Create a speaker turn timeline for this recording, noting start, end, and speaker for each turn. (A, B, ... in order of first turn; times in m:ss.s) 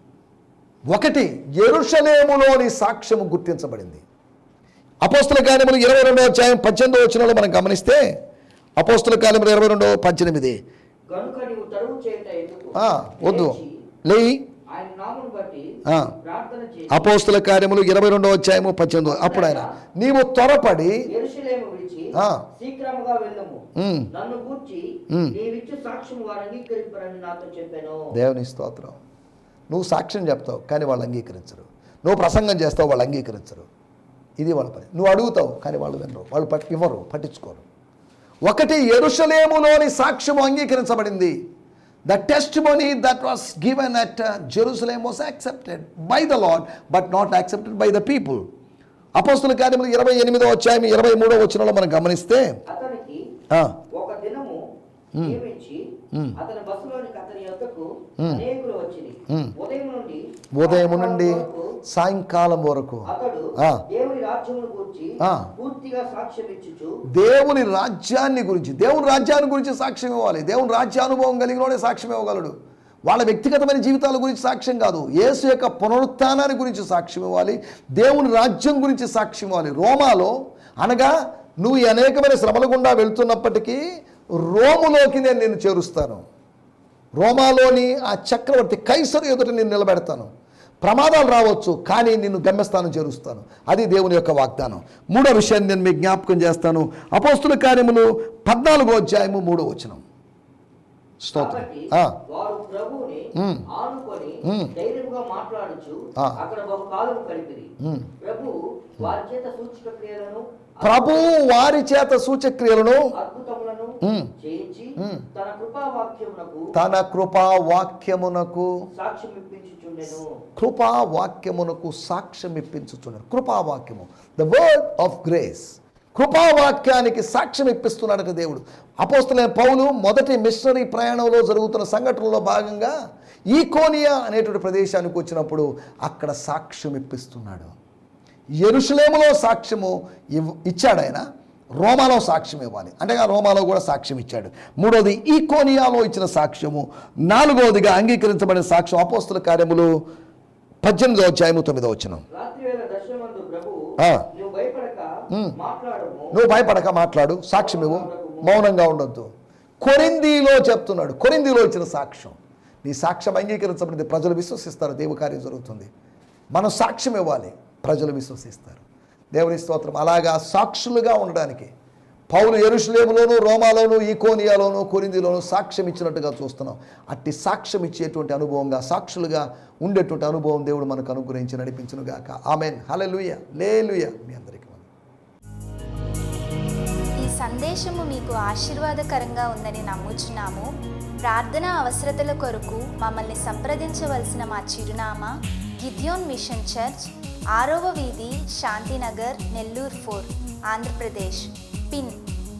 0:00.9-0:04.0 A
0:05.0-0:08.2 A
0:08.8-0:10.6 A
0:11.1-0:13.8 B
0:12.8-0:14.5 A
0:14.7-0:17.2 B
0:15.8-0:16.1 A
0:16.9-0:21.1 A
0:19.0-0:19.7 B
0:21.1-0:28.1 B
0:22.1-0:22.5 A
0:23.8-0:24.1 A
0:25.1-0:25.4 A
0:28.1-0:29.0 A
0:29.7-0:33.7 A
0:34.4-0:37.6 A
0:38.4-0:41.4 A
0:42.1-0:48.5 A
0:49.2-0:52.6 A
0:52.7-0:53.2 B
0:53.5-0:53.8 A
0:53.9-0:54.6 B
0:55.2-1:01.7 B
0:56.1-0:56.4 A
0:58.2-0:58.4 A
0:59.3-0:59.6 A
1:00.5-1:03.8 A
1:03.1-1:07.0 B
1:05.2-1:05.5 A
1:07.1-1:12.6 A
1:13.1-1:23.8 A
1:24.4-1:26.2 A
1:27.2-1:30.3 A
1:30.8-1:40.0 A
1:41.2-1:42.2 A
1:41.3-1:51.3 B
1:43.4-1:43.6 A
1:44.4-1:44.7 A
1:47.8-1:48.1 A
1:50.8-1:53.1 A
1:53.1-1:56.7 B
1:54.0-1:54.3 A
1:55.0-1:55.3 A
1:56.7-1:58.9 A
1:58.9-2:00.3 B
2:00.6-2:12.9 A
2:13.5-2:17.7 A
2:18.6-2:21.2 A
2:21.8-2:29.9 A
2:30.8-2:32.2 A
2:32.3-2:36.3 B
2:34.0-2:34.3 A
2:35.3-2:35.6 A
2:36.3-2:39.3 A
2:37.5-2:38.5 B
2:39.8-2:45.9 A
2:46.5-2:51.7 A
2:52.3-3:04.9 A
3:07.2-3:10.7 C
3:11.2-3:22.2 C